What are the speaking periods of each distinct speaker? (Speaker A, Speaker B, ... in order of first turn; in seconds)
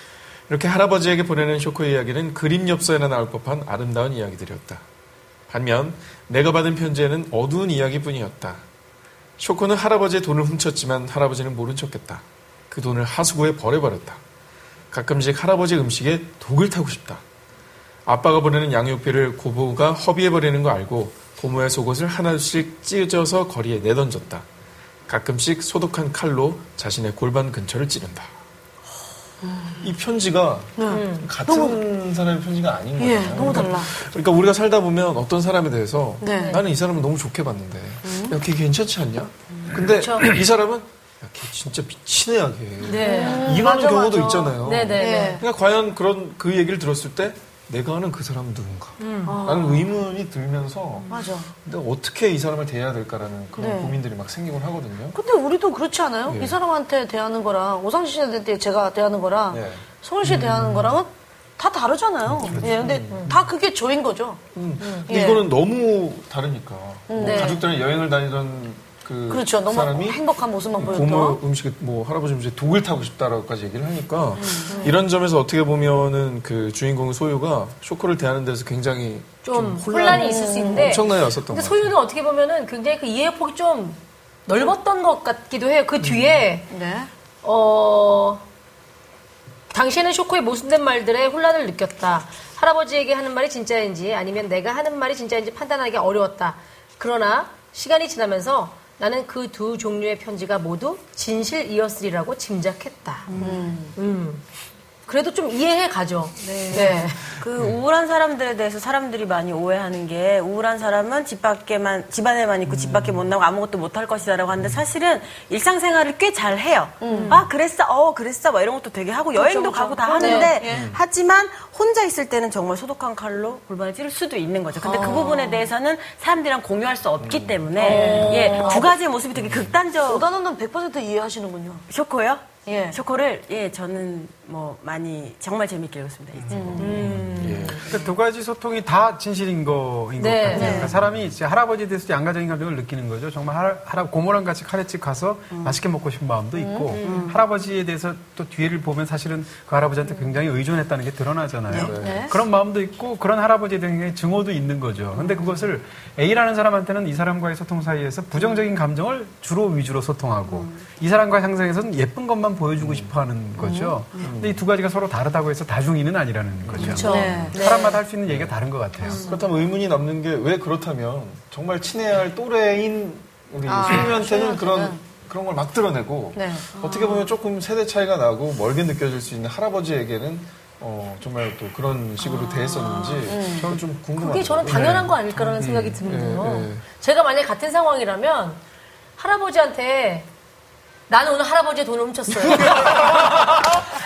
Speaker A: 0.5-4.8, 5.5-8.7, 9.4-14.2, 14.9-17.2, 18.1-24.5, 25.1-28.3, 29.8-51.1, 51.6-55.2, 56.3-56.6, 59.5-61.0, 62.4-63.4, 64.5-70.2, 70.8-82.0, 86.0-86.5, 103.3-103.6, 112.7-113.2, 120.6-121.0, 127.2-127.9, 129.3-129.8, 136.4-138.0, 151.8-152.3, 162.8-163.2, 164.2-164.7, 166.6-167.6, 168.2-168.6, 169.2-186.8, 192.4-193.8
Speaker B: 29.4-29.9, 30.8-31.8, 33.0-33.9, 36.2-36.6, 38.0-38.4, 43.0-45.4, 49.3-49.9, 51.1-51.5, 53.5-54.0, 55.1-65.5, 67.1-67.6, 69.3-71.4, 74.4-75.0, 80.1-81.0, 86.7-87.1, 103.4-103.9, 106.7-107.1, 117.0-117.4, 119.3-121.0, 124.8-125.7, 127.8-129.0, 130.0-131.8, 132.7-133.0, 136.5-137.0, 140.5-141.0, 146.5-147.2, 151.9-152.3, 163.6-164.2, 167.0-167.6, 173.7-175.0, 176.3-176.8, 183.3-183.8
Speaker C: 30.9-31.3, 36.3-36.6, 39.8-40.3, 42.8-43.5, 44.6-45.4, 49.0-49.4, 63.1-63.3, 67.2-67.6, 74.7-75.0, 79.4-86.7, 87.4-88.4, 89.7-103.3, 104.0-104.4, 105.1-107.2, 117.1-117.5, 120.2-120.5, 127.8-128.9, 136.8-137.8, 140.2-140.8, 146.9-147.3, 166.8-168.0, 184.2-188.6, 189.2-190.3, 191.1-193.6
Speaker D: 106.4-130.3, 131.9-137.2, 140.6-140.9, 147.0-147.4, 176.8-177.2, 182.2-183.3
Speaker E: 137.9-169.2